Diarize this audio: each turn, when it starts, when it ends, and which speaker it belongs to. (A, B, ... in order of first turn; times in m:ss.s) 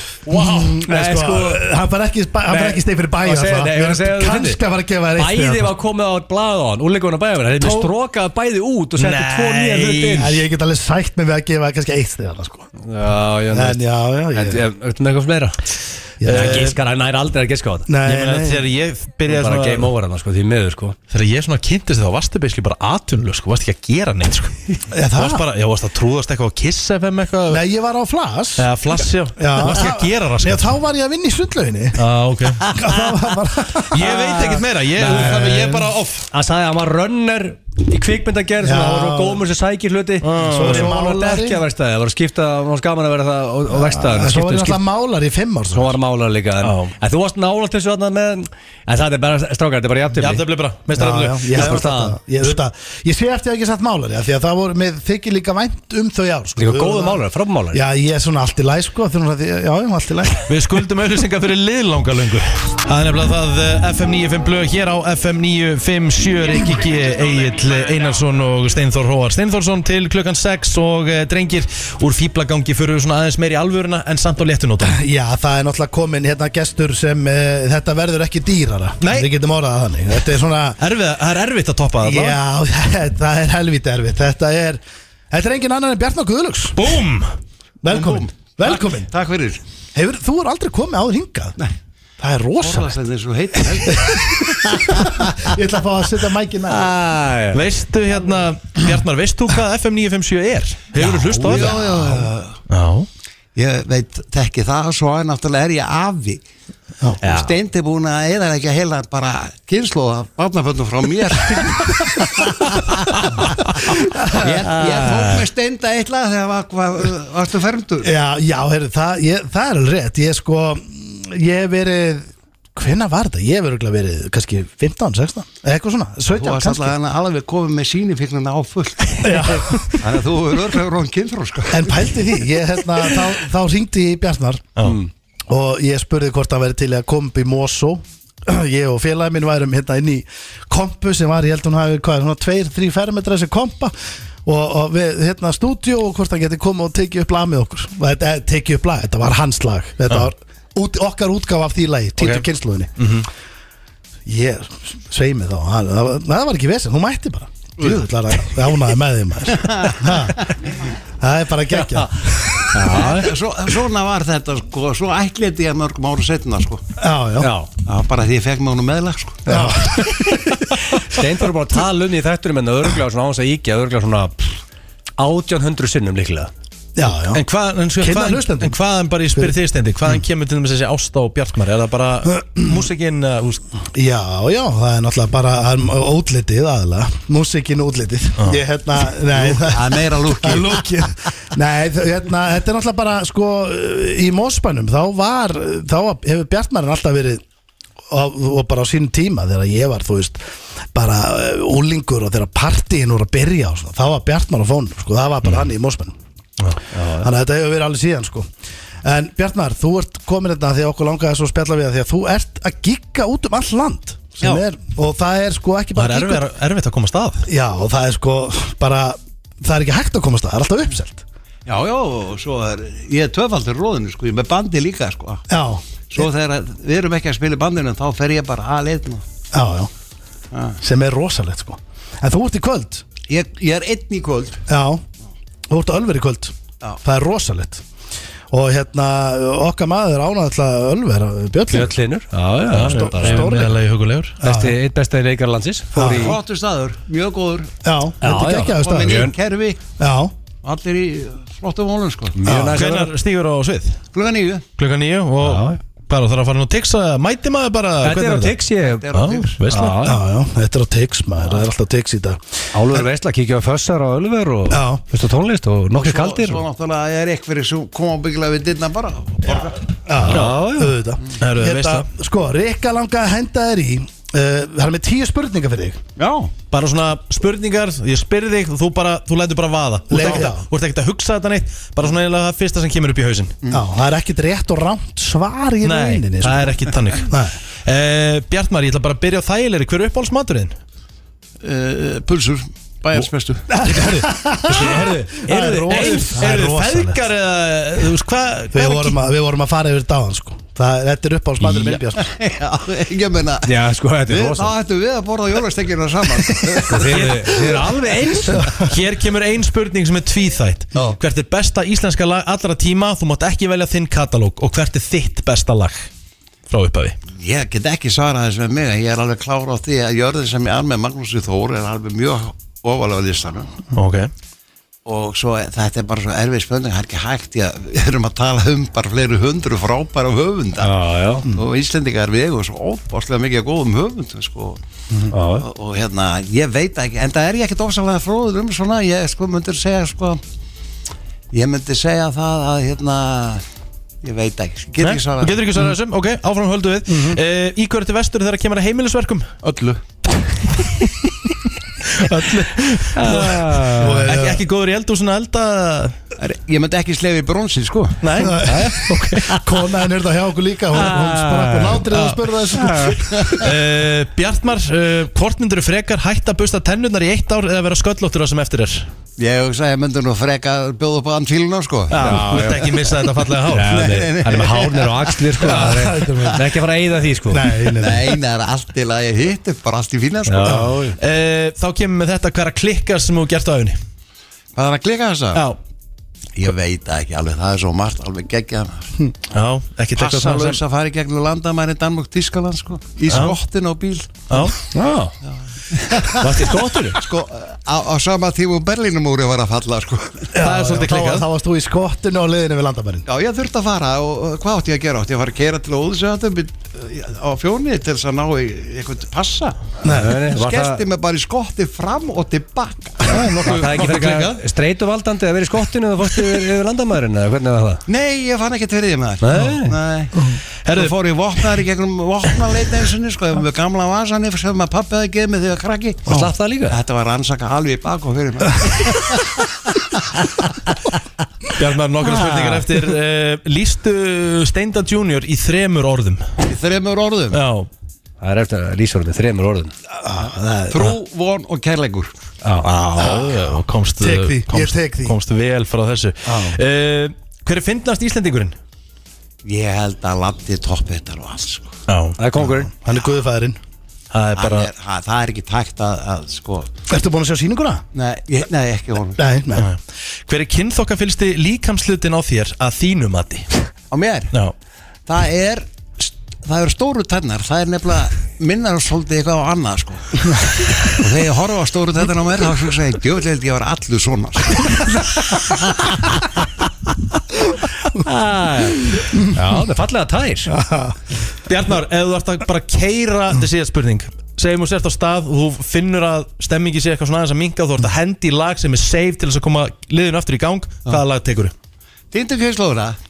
0:00.3-0:01.6 A
0:00.3-0:05.7 B
0:02.5-0:04.6 A
0:05.2-0:10.4 A
0:09.0-0:10.3 C
0:10.2-0:12.7 B
0:12.8-0:13.8 A
0:13.5-0:14.6 B
0:14.3-0:15.6 A
0:16.2-0:16.7 B
0:16.2-0:16.8 C
0:16.3-0:17.9 A
0:17.9-0:18.6 B
0:18.0-0:19.9 C
0:19.3-0:21.0 A
0:21.1-0:24.6 C
0:24.9-0:25.4 B
0:25.1-0:27.6 C
0:27.5-0:28.7 B
0:28.6-0:30.8 C
0:29.4-0:32.0 B
0:32.0-0:32.7 C
0:32.6-0:34.1 B
0:33.9-0:36.3 C
0:34.0-0:35.4 A
0:35.0-0:35.9 B
0:36.3-0:44.8 A
0:38.6-0:39.4 B
0:40.2-0:40.9 C
0:40.5-0:41.6 B
0:43.7-0:46.0 B
0:45.7-0:50.4 A
0:46.6-0:46.9 C
0:50.2-0:51.8 C
0:50.9-0:57.2 B
0:51.5-0:52.2 A
0:56.6-0:57.8 A
0:57.7-1:00.6 B
1:00.4-1:15.0 C
1:14.8-1:20.8 B
1:19.0-1:19.3 C
1:20.8-1:22.4 C
1:22.0-1:26.8 B
1:26.8-1:27.3 C
1:27.8-1:29.1 B
1:27.9-1:29.6 D
1:29.9-1:31.6 B
1:32.2-1:33.0 B
1:32.6-1:34.1 D
1:33.8-1:36.9 B
1:36.7-1:37.6 A
1:37.5-1:41.8 C
1:41.0-1:41.7 A
1:41.5-1:42.6 D
1:41.5-1:42.2 B
1:42.7-1:43.1 C
1:43.5-1:46.4 D
1:47.2-1:47.5 A
1:47.2-1:53.6 D
1:54.1-1:54.5 B
1:54.3-1:58.1 D
1:54.4-1:55.4 A
1:58.0-2:06.9 B
2:06.3-2:12.0 D
2:09.2-2:09.9 B
2:11.7-2:14.7 B
2:14.8-2:15.1 A
2:15.5-2:23.9 B
2:24.4-2:33.0 B
2:33.0-2:33.3 C
2:34.2-2:40.5 B
2:39.5-2:40.5 D
2:41.2-2:42.7 B
2:42.7-2:43.3 A
2:42.9-2:46.8 D
2:47.0-2:47.5 B
2:47.4-2:47.7 A
2:47.8-2:49.5 D
2:49.4-2:54.6 A
2:49.5-2:50.3 B
2:55.2-2:56.5 A
2:57.0-2:57.4 B
2:57.3-3:03.6 C
2:58.0-2:58.8 B
3:02.3-3:02.8 B
3:03.9-3:17.4 B
3:09.3-3:10.9 D
3:18.1-3:20.4 B
3:20.9-3:26.2 B
3:26.9-3:27.3 A
3:27.2-3:28.5 B
3:29.0-3:36.4 B
3:36.0-3:37.5 C
3:37.4-3:41.2 B
3:41.6-3:45.4 D
3:45.5-3:46.2 B
3:46.1-3:49.2 D
3:49.5-3:49.9 B
3:50.5-3:50.8 D
3:50.8-3:53.0 B
3:53.3-3:54.6 D
3:54.7-3:55.0 B
3:55.7-3:57.8 B
3:58.5-4:02.0 B
4:01.7-4:03.5 A
4:02.7-4:04.4 C
4:02.7-4:03.8 B
4:04.4-4:04.8 B
4:04.4-4:06.4 A
4:05.9-4:06.3 B
4:06.1-4:07.7 D
4:07.8-4:09.3 B
4:08.2-4:09.3 A
4:08.6-4:09.8 D
4:10.0-4:10.3 B
4:10.6-4:12.4 D
4:12.3-4:13.1 A
4:12.5-4:12.8 B
4:12.7-4:14.0 C
4:14.1-4:14.6 D
4:14.8-4:18.6 C
4:15.4-4:15.8 A
4:18.0-4:19.1 A
4:18.8-4:19.6 D
4:19.1-4:20.0 C
4:19.7-4:20.2 A
4:20.0-4:22.4 B
4:22.7-4:26.6 A
4:24.7-4:25.0 B
4:26.0-4:29.8 D
4:30.0-4:36.0 B
4:30.2-4:31.0 A
4:30.3-4:30.5 C
4:31.4-4:32.0 C
4:36.2-4:36.5 D
4:36.7-4:43.6 C
4:40.1-4:40.6 B
4:43.7-4:47.6 B
4:45.8-4:50.8 C
4:51.6-4:53.7 D
4:53.7-4:57.2 B
4:54.7-4:56.4 A
4:55.9-4:59.2 C
4:58.7-5:02.3 B
5:02.2-5:03.7 D
5:03.6-5:04.7 A
5:04.3-5:07.0 D
5:06.8-5:08.7 A
5:07.1-5:07.6 C
5:08.8-5:16.1 C
5:16.7-5:17.2 C
5:17.4-5:23.7 D
5:23.9-5:24.3 C
5:25.0-5:30.9 D
5:30.8-5:31.4 A
5:31.4-5:34.8 D
5:35.3-5:35.7 A
5:35.6-5:40.4 D
5:41.5-5:43.6 D
5:44.2-5:45.6 D
5:45.0-5:49.6 C
5:47.1-5:47.4 B
5:49.6-5:50.0 D
5:52.1-5:56.2 C
5:53.1-5:54.3 A
5:54.0-5:54.6 B
5:56.4-5:58.3 D
5:58.2-5:59.5 C
5:58.4-6:03.5 B
5:58.6-5:59.6 A
6:00.9-6:02.0 A
6:02.1-6:02.7 C
6:02.7-6:03.2 A
6:03.3-6:03.7 D
6:03.6-6:09.1 C
6:09.4-6:12.4 D
6:12.1-6:14.0 C
6:12.2-6:12.9 A
6:13.7-6:17.8 A
6:13.9-6:15.5 D
6:15.6-6:16.6 B
6:17.5-6:18.3 B
6:17.9-6:20.8 D
6:20.5-6:21.2 A
6:21.2-6:24.0 C
6:24.7-6:25.6 D
6:26.6-6:29.1 D
6:29.5-6:30.8 C
6:30.2-6:34.5 D
6:33.3-6:33.5 C
6:34.5-6:34.8 C
6:34.9-6:35.3 A
6:35.4-6:40.5 D
6:36.3-6:37.2 A
6:40.5-6:43.2 B
6:40.6-6:41.5 C
6:43.2-6:49.8 D
6:50.0-6:50.4 B
6:50.0-6:51.0 A
6:50.4-6:53.3 D
6:53.3-6:58.0 A
6:53.3-6:54.6 C
6:58.1-7:00.4 D
6:59.4-6:59.9 A
7:00.8-7:01.6 C
7:00.9-7:09.6 D
7:06.3-7:07.0 A
7:11.7-7:16.4 C
7:16.6-7:17.6 D
7:17.5-7:17.9 C
7:18.4-7:19.9 A
7:20.2-7:21.1 B
7:20.9-7:22.3 D
7:22.6-7:22.9 A
7:22.8-7:28.8 C
7:23.1-7:25.4 B
7:26.4-7:26.8 B
7:29.6-7:31.9 D
7:32.1-7:32.4 C
7:32.4-7:32.9 A
7:32.6-7:33.8 B
7:34.3-7:34.9 C
7:34.6-7:36.9 D
7:37.1-7:38.0 B
7:38.1-7:39.4 D
7:39.4-7:39.9 B
7:39.8-7:43.7 C
7:44.1-7:44.5 D
7:45.3-7:56.4 D
7:58.1-8:00.7 A
8:00.7-8:01.2 B
8:01.7-8:11.7 C
8:12.3-8:13.2 D